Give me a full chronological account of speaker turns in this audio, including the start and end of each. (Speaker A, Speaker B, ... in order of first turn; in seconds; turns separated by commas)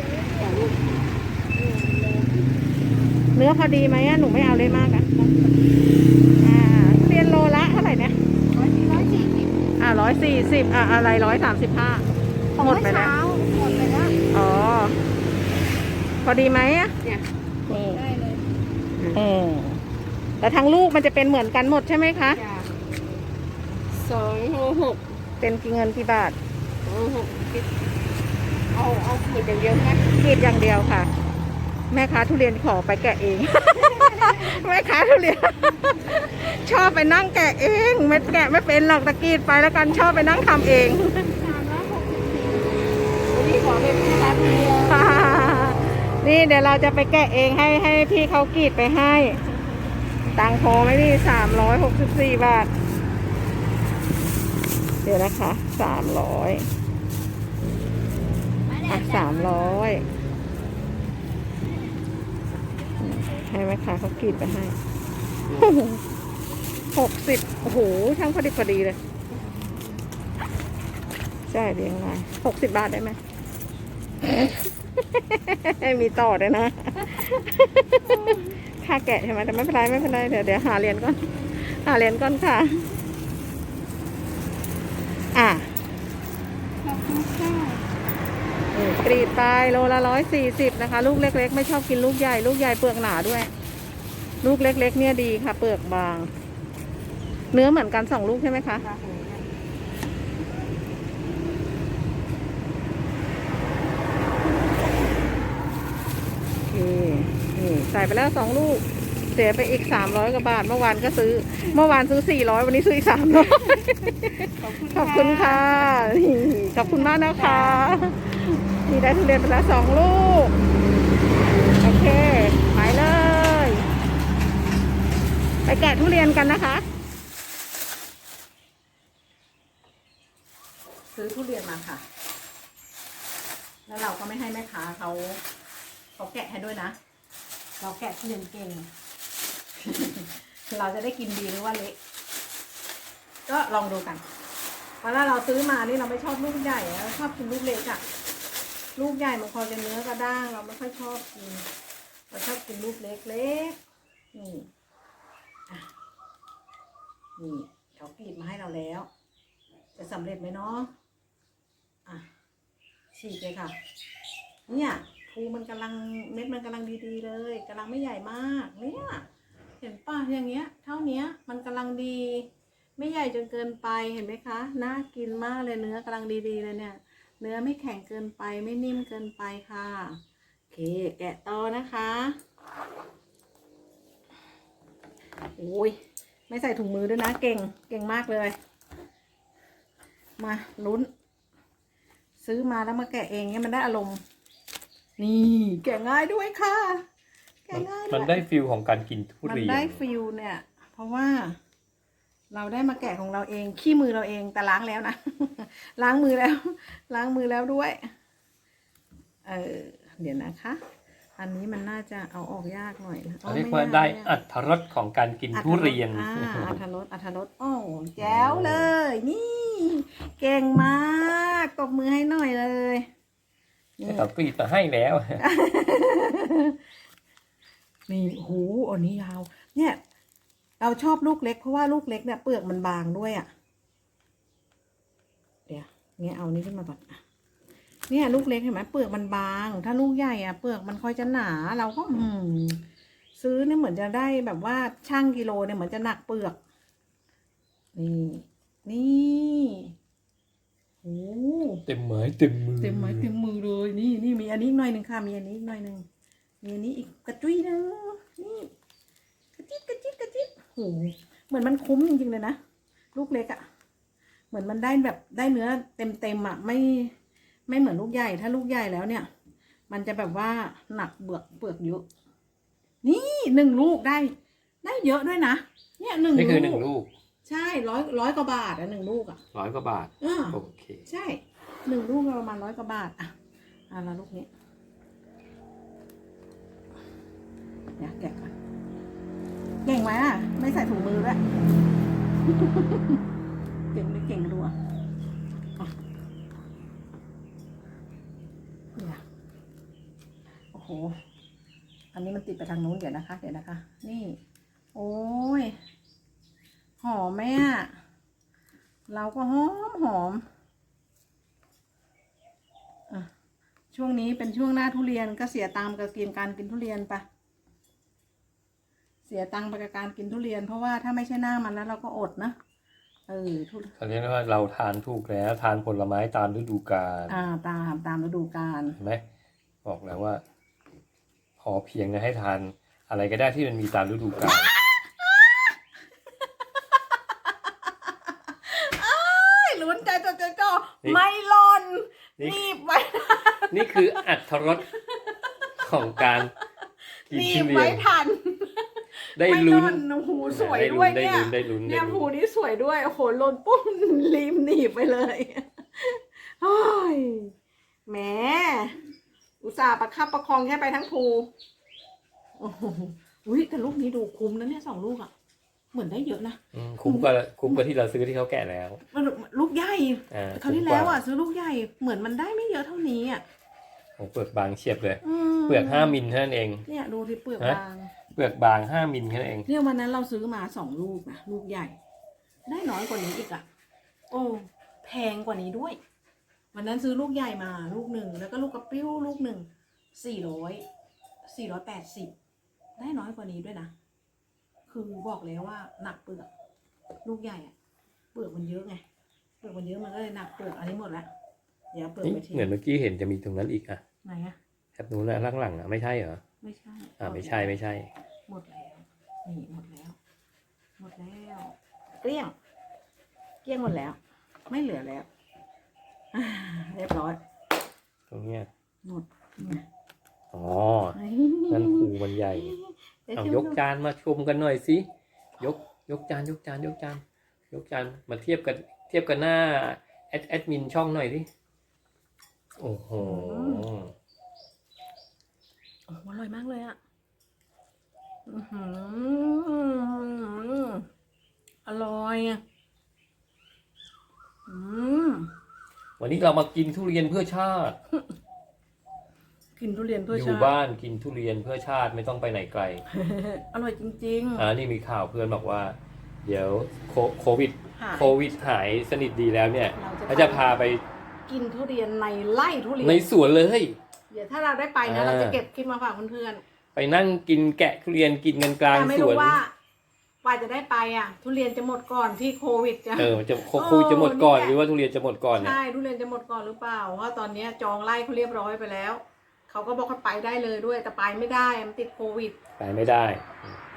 Speaker A: 0.1-1.0, Speaker A: 1.5-2.7, Speaker B: 3.3-5.1, Speaker A: 5.1-5.6, Speaker B: 6.4-8.2, Speaker A: 8.5-9.6, Speaker B: 9.8-13.1, Speaker A: 12.6-14.2, Speaker B: 14.3-15.0, Speaker B: 16.2-16.9, Speaker A: 17.0-18.4, Speaker B: 17.7-18.0, Speaker B: 19.1-19.8, Speaker B: 20.4-22.4, Speaker A: 22.3-22.7, Speaker A: 23.9-25.2, Speaker B: 25.4-26.4, Speaker A: 26.8-27.7, Speaker A: 28.7-30.1, Speaker B: 30.0-31.1, Speaker B: 31.9-41.4, Speaker A: 33.7-34.6, Speaker A: 40.0-40.2, Speaker A: 41.3-45.0, Speaker B: 44.8-49.4, Speaker B: 50.3-52.7, Speaker B: 55.0-56.7, Speaker A: 58.8-59.6, Speaker B: 58.9-60.0, Speaker B: 63.0-64.8, Speaker B: 65.5-66.0, Speaker B: 66.9-69.0, Speaker B: 71.5-73.2, Speaker B: 74.2-83.0, Speaker B: 85.3-85.7, Speaker A: 86.8-87.8, Speaker B: 88.7-93.5, Speaker B: 94.4-96.3, Speaker B: 97.5-98.9, Speaker A: 98.8-99.5, Speaker B: 106.6-120.6, Speaker A: 113.5-116.1, Speaker A: 116.7-117.8, Speaker B: 121.8-123.9, Speaker B: 125.6-126.8, Speaker B: 131.1-132.0, Speaker B: 133.9-135.4, Speaker B: 136.2-136.9, Speaker B: 137.8-138.9, Speaker B: 139.8-142.0, Speaker B: 143.5-144.2, Speaker B: 145.0-148.0, Speaker B: 148.9-151.7, Speaker B: 152.3-153.8, Speaker B: 154.3-154.7, Speaker B: 157.4-159.1, Speaker B: 159.9-160.9, Speaker B: 163.1-163.7, Speaker B: 164.7-169.2, Speaker B: 169.8-180.2, Speaker B: 180.7-182.4, Speaker B: 185.6-188.6, Speaker B: 190.4-191.1, Speaker B: 192.4-194.2, Speaker B: 195.2-197.0, Speaker B: 197.6-198.4, Speaker C: 197.7-200.0, Speaker B: 199.4-201.6, Speaker B: 202.5-208.1, Speaker B: 209.4-210.8, Speaker B: 211.4-214.4, Speaker C: 213.4-216.8, Speaker B: 215.5-223.1, Speaker C: 218.2-218.9, Speaker B: 224.0-224.3, Speaker C: 224.0-225.4, Speaker B: 225.4-226.8, Speaker B: 228.1-230.0, Speaker B: 230.8-233.5, Speaker B: 235.7-237.2, Speaker B: 238.1-242.8, Speaker B: 243.4-246.6, Speaker B: 247.9-249.9, Speaker B: 251.0-251.8, Speaker C: 251.9-253.3, Speaker B: 252.8-256.0, Speaker B: 256.6-258.7, Speaker B: 259.5-262.6, Speaker B: 263.1-263.6, Speaker B: 264.5-267.1, Speaker B: 267.7-269.3, Speaker B: 269.9-272.0, Speaker B: 273.0-276.9, Speaker C: 276.3-277.1, Speaker B: 277.4-279.4, Speaker C: 279.5-281.0, Speaker B: 280.2-283.3, Speaker B: 283.9-284.5, Speaker B: 288.0-288.5, Speaker B: 289.8-291.4, Speaker B: 292.4-293.2, Speaker B: 293.9-294.7, Speaker B: 298.9-299.2, Speaker B: 300.7-301.2, Speaker B: 302.1-304.4, Speaker B: 304.9-305.8, Speaker B: 307.0-307.9, Speaker B: 309.1-310.4, Speaker B: 313.9-317.2, Speaker B: 319.2-322.6, Speaker B: 323.3-323.9, Speaker C: 324.0-327.4, Speaker B: 327.3-329.0, Speaker C: 329.0-329.2, Speaker C: 329.8-330.4, Speaker C: 331.6-334.7, Speaker B: 334.4-335.8, Speaker B: 338.5-344.2, Speaker C: 343.7-344.9, Speaker B: 344.7-345.2, Speaker C: 345.8-346.5, Speaker B: 347.3-357.5, Speaker C: 347.3-348.1, Speaker C: 349.4-352.3, Speaker B: 358.1-358.9, Speaker B: 359.6-361.5, Speaker B: 362.6-365.3, Speaker B: 365.9-367.8, Speaker C: 366.7-369.0, Speaker B: 369.1-373.4, Speaker C: 370.3-371.2, Speaker C: 374.2-376.8, Speaker B: 375.2-376.2, Speaker B: 376.8-378.1, Speaker C: 378.3-379.7, Speaker B: 379.6-382.0, Speaker B: 382.6-383.6, Speaker B: 384.3-386.0, Speaker B: 386.7-390.8, Speaker B: 391.4-392.3, Speaker B: 393.0-393.9, Speaker B: 394.9-396.5, Speaker B: 397.2-397.7, Speaker B: 398.3-399.0, Speaker B: 399.6-401.3, Speaker B: 401.9-402.7, Speaker C: 402.2-404.0, Speaker B: 404.2-404.6, Speaker C: 404.9-406.4, Speaker B: 406.6-407.8, Speaker C: 407.2-408.1, Speaker B: 408.5-410.2, Speaker B: 411.0-412.5, Speaker B: 413.6-415.3, Speaker B: 416.3-417.4, Speaker C: 418.3-418.7, Speaker B: 419.0-419.8, Speaker C: 420.5-421.2, Speaker B: 421.1-423.8, Speaker C: 421.7-422.8, Speaker C: 423.4-425.1, Speaker C: 425.6-431.5, Speaker C: 432.8-434.1, Speaker B: 433.2-433.9, Speaker B: 436.1-437.0, Speaker B: 438.4-441.1, Speaker B: 441.8-442.6, Speaker B: 444.7-445.5, Speaker C: 446.2-448.0, Speaker B: 449.8-450.7, Speaker C: 450.3-453.0, Speaker B: 453.1-454.7, Speaker C: 454.6-461.0, Speaker B: 457.9-458.4, Speaker B: 459.9-460.7, Speaker B: 461.5-463.3, Speaker C: 463.0-464.0, Speaker B: 464.3-466.6, Speaker C: 465.0-465.6, Speaker C: 466.9-469.6, Speaker B: 468.9-469.7, Speaker B: 470.4-474.8, Speaker C: 473.2-475.8, Speaker B: 475.6-482.6, Speaker C: 482.8-483.8